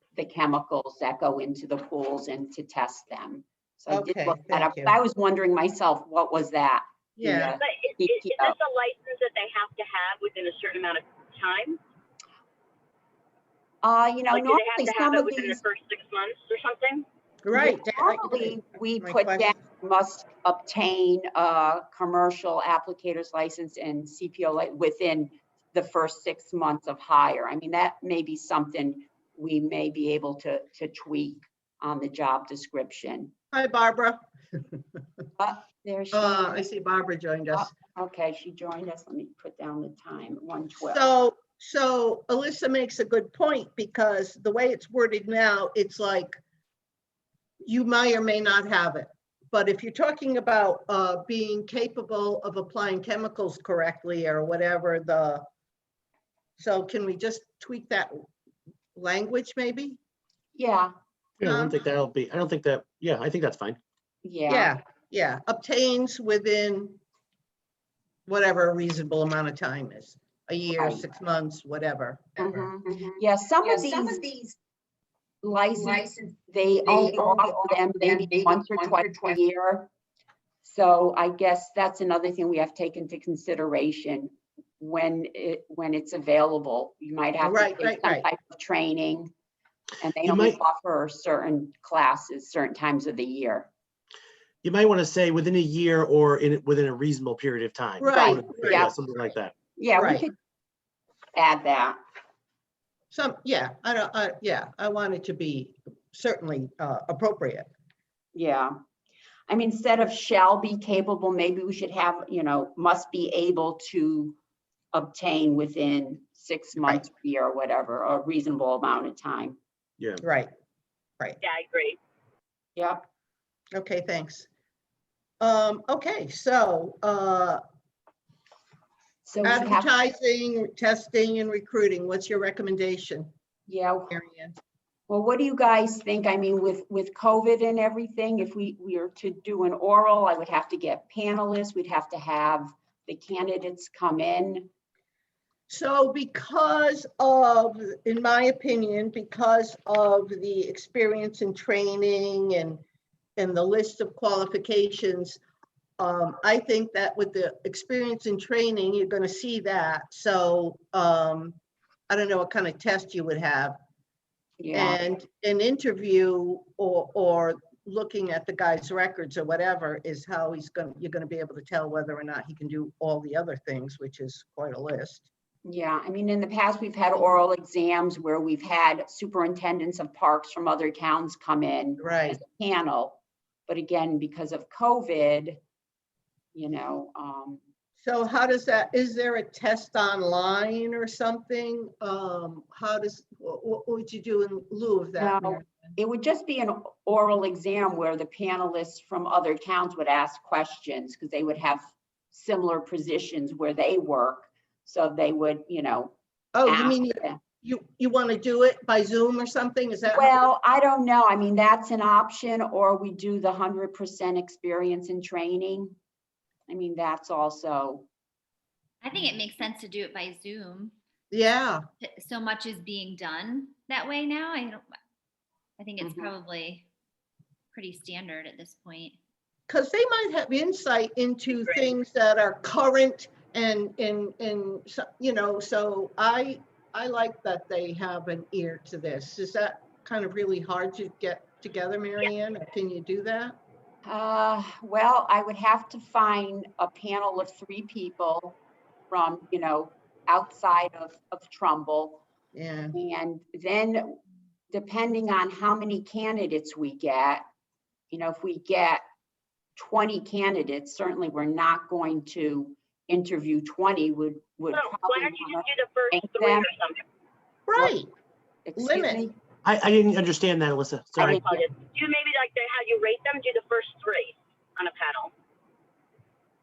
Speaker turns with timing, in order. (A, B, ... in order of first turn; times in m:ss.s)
0:00.2-0:08.5 A
0:03.9-0:05.0 B
0:07.2-0:07.6 B
0:07.6-0:11.8 C
0:13.8-0:15.6 A
0:14.3-0:17.0 C
0:17.4-0:19.5 B
0:17.5-0:33.3 A
0:33.5-0:34.7 B
0:35.4-0:36.7 A
0:36.1-0:37.7 B
0:37.5-0:41.2 A
0:40.9-0:46.4 B
0:47.6-0:55.4 B
0:56.6-0:58.2 B
0:58.9-1:00.0 B
1:00.5-1:00.9 A
1:01.4-1:03.8 D
1:01.4-1:01.8 B
1:04.2-1:04.7 A
1:04.5-1:07.0 B
1:08.3-1:12.7 B
1:10.7-1:11.0 A
1:12.4-1:14.2 A
1:12.9-1:14.6 E
1:15.4-1:19.9 A
1:15.7-1:19.4 E
1:20.6-1:29.3 A
1:27.4-1:28.2 B
1:30.0-1:33.7 A
1:30.2-1:30.6 D
1:34.6-1:39.5 D
1:38.0-1:38.9 B
1:38.1-1:40.3 A
1:39.9-1:40.3 B
1:41.3-1:42.0 A
1:43.1-1:47.7 B
1:48.3-1:48.7 A
1:49.5-1:54.4 A
1:54.9-1:59.6 A
2:00.2-2:00.5 B
2:01.4-2:02.0 C
2:02.8-2:03.0 A
2:03.7-2:04.5 B
2:05.4-2:07.6 B
2:09.2-2:09.9 A
2:09.4-2:13.3 B
2:13.7-2:14.1 A
2:14.1-2:14.6 B
2:15.1-2:24.7 A
2:25.7-2:32.8 B
2:33.4-2:35.4 B
2:36.0-2:41.6 B
2:42.1-2:43.8 B
2:44.6-2:45.0 A
2:44.7-2:55.2 B
2:55.6-3:05.6 A
3:02.0-3:02.4 B
3:06.5-3:07.6 A
3:08.0-3:15.9 B
3:15.2-3:27.4 A
3:26.5-3:30.4 B
3:30.1-3:35.9 A
3:36.7-3:38.1 A
3:39.0-3:40.9 F
3:41.3-3:41.8 B
3:42.0-3:44.8 F
3:45.8-3:46.8 F
3:47.7-3:49.2 F
3:49.7-4:03.6 B
4:04.0-4:08.6 A
4:09.1-4:12.2 A
4:12.5-4:13.0 B
4:12.9-4:14.2 A
4:14.7-4:17.4 A
4:18.1-4:19.0 A
4:19.8-4:26.7 A
4:24.7-4:27.0 C
4:27.7-4:28.1 B
4:27.7-4:28.0 A
4:28.6-4:29.3 A
4:28.8-4:29.3 B
4:29.6-4:31.4 D
4:31.2-4:31.6 A
4:31.2-4:35.3 C